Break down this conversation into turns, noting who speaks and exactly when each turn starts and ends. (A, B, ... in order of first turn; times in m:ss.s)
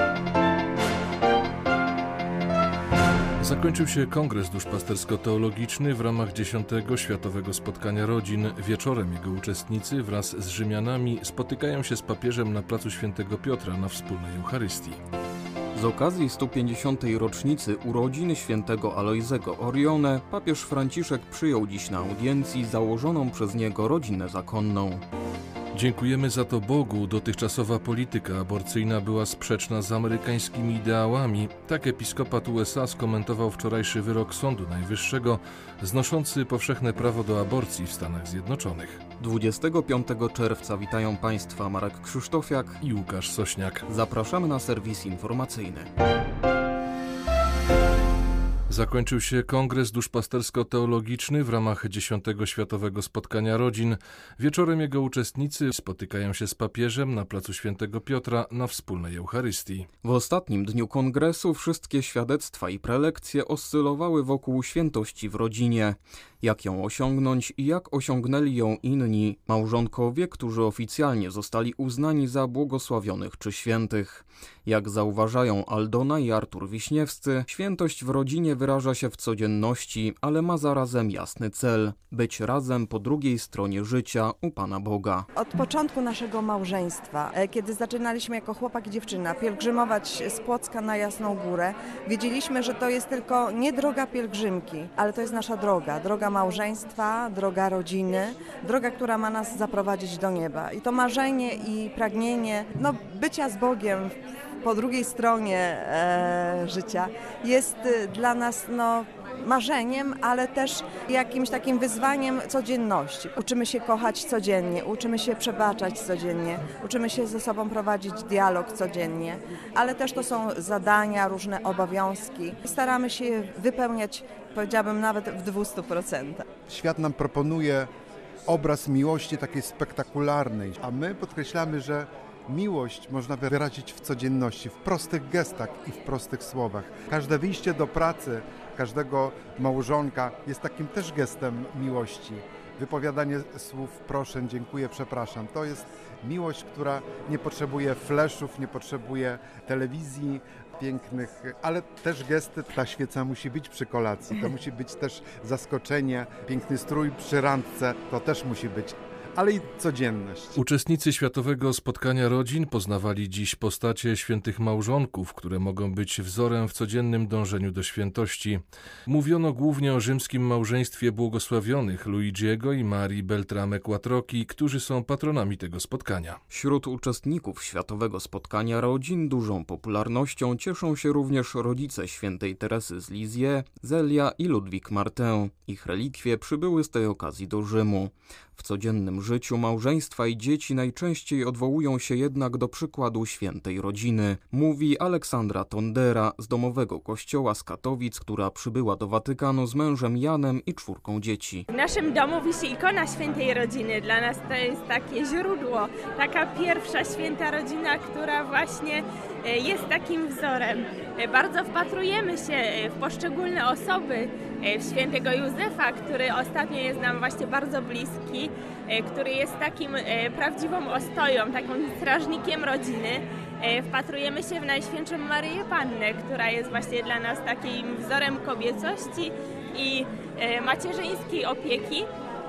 0:03.4-0:15.0 A
0:15.8-0:25.0 B
0:25.8-0:39.0 A
0:39.2-0:42.8 B
0:42.8-0:43.9 A
0:43.9-0:45.9 B
0:48.7-0:59.9 A
1:00.0-1:25.3 B
1:25.4-2:06.5 C
2:06.7-2:07.9 D
2:08.5-2:40.6 D
2:40.6-2:56.4 A
2:56.5-3:21.7 B
3:21.7-3:52.1 E